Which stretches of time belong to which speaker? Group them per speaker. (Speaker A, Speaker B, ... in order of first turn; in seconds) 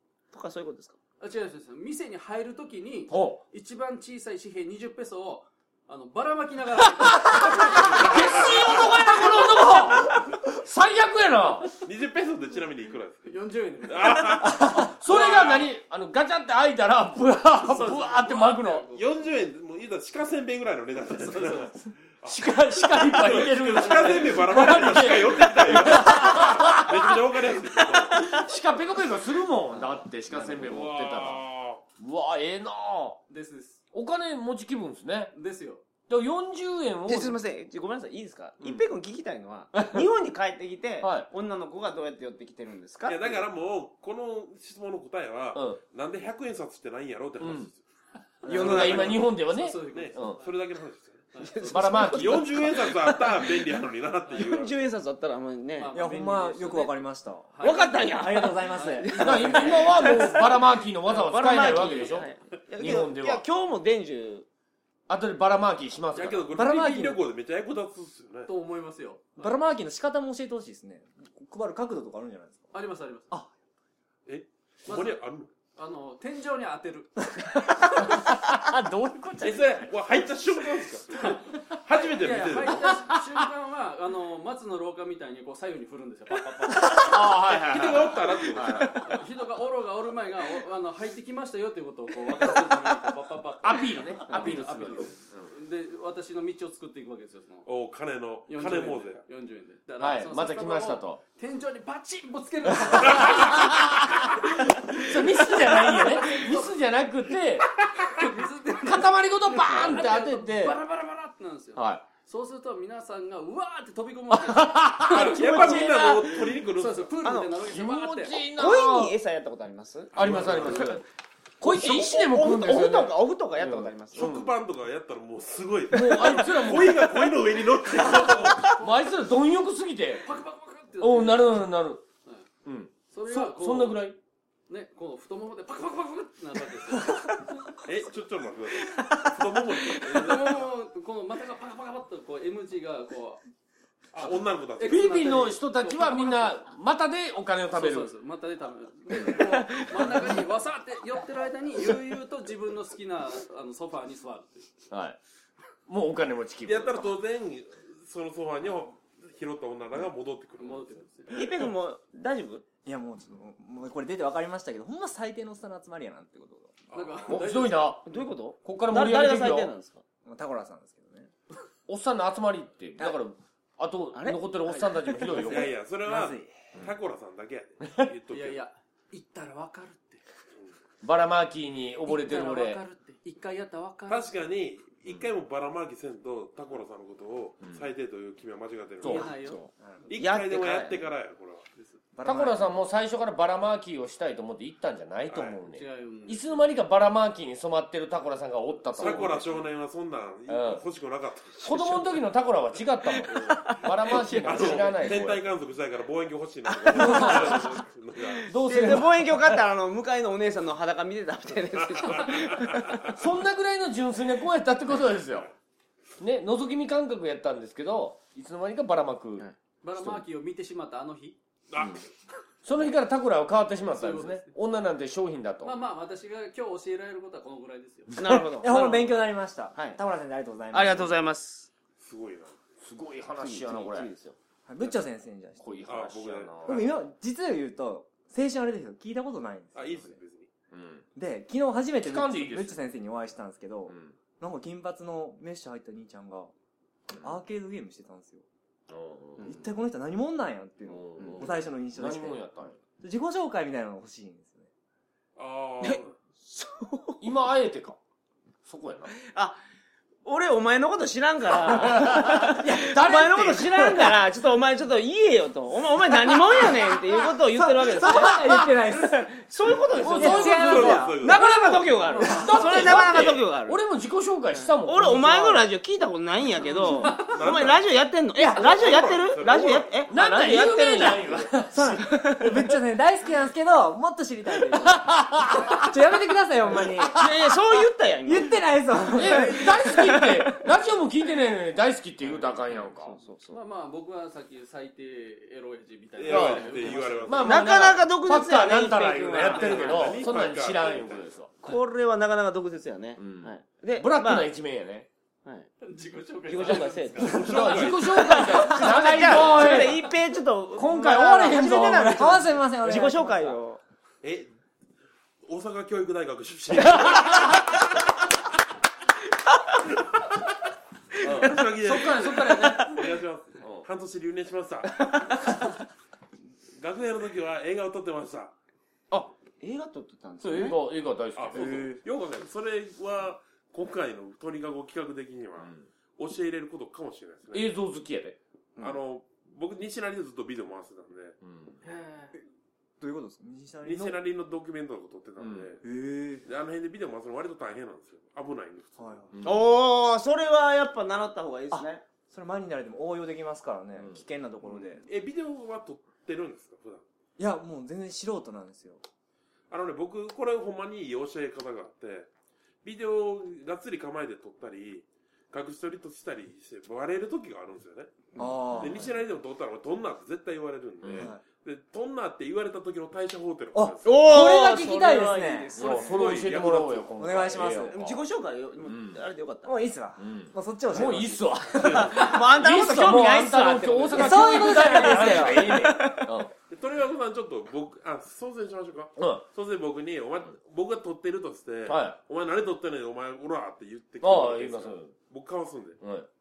Speaker A: 0.3-1.0, 37.1-43.5, 48.4-49.2, 51.4-53.6, 54.3-55.9, 57.6-64.5, 117.2-117.6, 118.5-121.0, 121.6-124.3, 161.3-162.7, 168.1-170.0, 174.1-174.4, 189.1-191.1, 203.4-203.8, 204.3-204.8, 207.1-207.6, 208.6-213.1, 228.2-230.0, 230.7-231.7, 233.4-234.4, 249.4-249.7, 251.2-251.5, 255.8-257.2, 259.2-259.6, 260.2-268.4, 269.3-273.8, 274.5-282.1, 287.1-288.6, 292.8-293.6, 297.4-300.3, 301.6-304.5, 306.5-313.8, 321.2-323.0, 329.1-330.8, 349.4-352.0, 374.0-376.2, 377.9-379.7, 381.7-386.3
Speaker B: 1.2-10.1, 13.2-14.5, 17.6-19.4, 21.0-21.8, 33.3-33.8, 35.3-35.8, 48.6-50.5, 51.3-51.6, 55.8-60.2, 61.6-62.0, 68.5-69.6, 72.7-73.3, 74.9-75.2, 75.8-78.2, 81.2-87.2, 89.0-97.7, 98.5-106.7, 107.8-118.4, 128.0-129.1, 130.2-131.7, 133.1-134.1, 134.7-137.4, 140.1-143.4, 144.2-146.6, 147.7-154.7, 160.6-161.4, 166.9-168.0, 174.7-174.9, 178.3-180.2, 182.0-184.3, 189.1-189.6, 195.7-196.7, 219.8-221.4, 223.9-224.5, 225.6-228.1, 272.0-273.1, 276.8-277.4, 289.3-289.7, 293.5-297.4, 305.8-307.9, 341.8-342.3
Speaker C: 3.1-3.4, 6.9-11.8, 14.3-18.9, 22.2-27.3, 28.1-31.4, 32.0-33.2, 33.9-35.4, 36.1-37.4, 41.0-41.3, 45.5-45.8, 47.4-47.7, 48.4-50.4, 51.7-52.8, 59.2-63.4, 65.1-66.5, 82.8-83.3, 86.8-89.0, 93.6-95.5, 100.0-101.2, 102.7-110.8, 111.8-112.0, 114.3-116.5, 117.6-119.2, 120.1-121.0, 121.6-124.5, 125.9-127.5, 128.1-130.3, 131.0-132.0, 132.7-134.2, 144.8-148.1, 154.9-155.2, 155.9-157.2, 167.3-169.7, 171.9-175.8, 181.0-182.8, 189.0-189.3, 192.2-199.7, 200.5-200.8, 201.6-205.5, 206.9-207.7, 208.5-209.6, 213.1-215.5, 216.2-219.5, 221.8-222.0, 222.6-225.7, 232.8-234.1, 235.6-237.0, 240.7-241.1, 242.1-242.8, 243.9-244.2, 248.9-249.5, 250.9-252.8, 257.2-258.0, 258.6-259.1, 261.7-264.2, 268.0-268.7, 270.0-275.7, 280.1-282.6, 284.7-285.9, 286.7-287.4, 289.1-293.2, 296.3-301.5, 303.2-305.1, 306.6-310.1, 310.8-312.5, 316.9-317.4, 321.2-323.0, 323.6-323.9, 330.4-332.0, 335.6-335.9, 337.5-338.4, 341.4-341.8, 345.4-345.8, 349.3-349.7, 371.0-371.3, 375.8-378.2, 378.8-379.2, 380.2-386.6, 389.2-389.5, 391.9-392.2, 394.2-395.2, 396.0-396.3
Speaker D: 8.0-8.8, 11.8-13.3, 13.9-15.7, 18.9-28.4, 30.5-31.9, 43.0-47.8, 48.5-49.3, 49.8-51.3, 52.0-54.7, 66.1-68.5, 74.3-75.5, 79.4-82.9, 87.3-89.1, 97.7-99.2, 103.1-103.4, 115.0-117.1, 120.1-121.0, 124.1-128.8, 137.8-140.7, 144.1-145.3, 156.6-161.4, 166.9-167.6, 175.2-178.6, 184.1-189.3, 190.1-192.0, 195.3-195.6, 198.9-202.2, 203.3-208.5, 211.9-213.1, 221.7-222.1, 232.0-232.6, 235.9-236.9, 239.8-240.5, 255.4-256.1, 270.2-271.5, 277.3-277.8, 278.6-280.0, 296.2-297.9, 299.3-301.3, 307.2-308.6, 314.2-314.5, 315.4-317.5, 321.2-325.4, 326.8-328.6, 331.4-337.7, 338.8-341.4, 343.8-345.8, 346.4-349.3, 354.8-357.0, 359.7-362.3, 362.8-374.3, 375.8-377.1, 381.8-382.2, 386.7-396.0
Speaker E: 55.9-60.1, 66.5-67.2, 69.4-72.8, 77.4-79.9, 162.8-166.8, 170.2-171.3, 176.0-176.6, 192.1-192.7, 228.5-231.2, 234.7-236.0, 236.7-240.2, 241.2-246.5, 247.1-248.4, 249.4-254.7, 262.0-263.1, 267.6-269.3, 269.9-271.3, 278.4-278.9, 281.7-287.3, 288.2-290.7, 308.6-309.2, 311.7-313.6, 343.0-344.2, 345.8-346.5, 349.0-349.3, 352.3-355.1, 357.4-359.0, 368.4-369.1, 371.2-371.4, 373.7-375.8, 377.2-378.1, 379.6-381.5, 384.1-386.2